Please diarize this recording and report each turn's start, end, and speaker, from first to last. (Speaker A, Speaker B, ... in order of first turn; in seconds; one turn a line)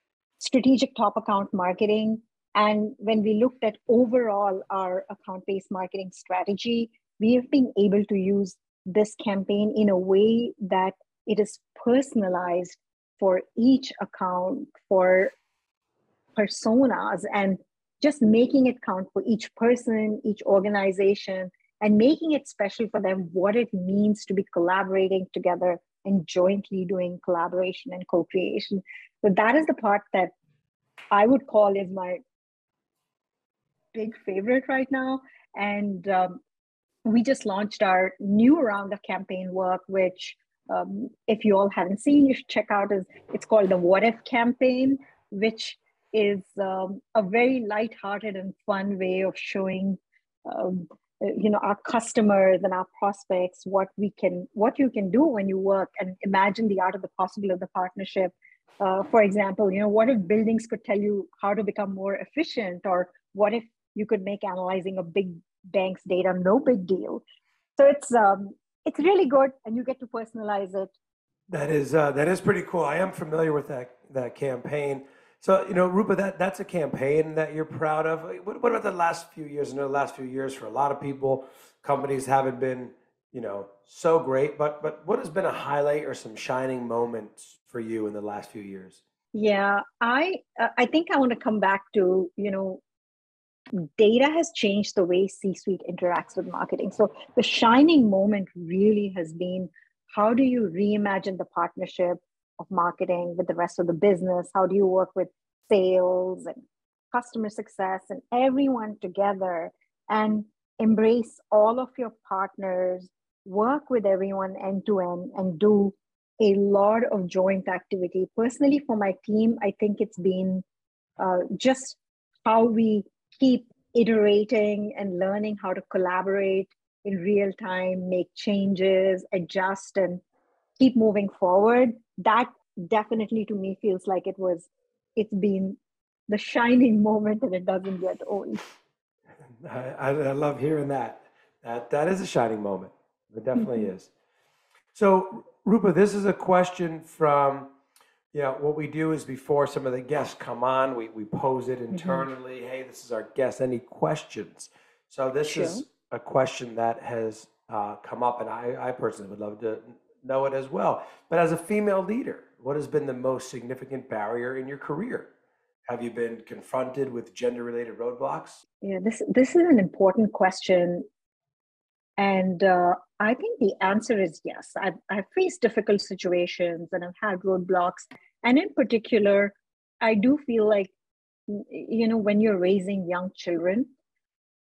Speaker A: 0.4-15.3
Speaker A: 16.4-30.3
Speaker A: 31.1-32.2
Speaker A: 33.9-36.4
Speaker A: 37.1-67.2
Speaker A: 67.8-70.9
Speaker B: 71.5-89.0
Speaker A: 89.3-92.8
Speaker A: 93.7-120.7
Speaker A: 121.2-130.2
Speaker A: 130.8-138.6
Speaker B: 139.6-144.1
Speaker A: 143.6-143.9
Speaker B: 144.9-147.7
Speaker B: 148.3-165.3
Speaker A: 151.9-152.2
Speaker A: 155.5-155.8
Speaker B: 165.9-168.6
Speaker A: 168.8-171.1
Speaker A: 172.2-180.9
Speaker A: 181.5-183.9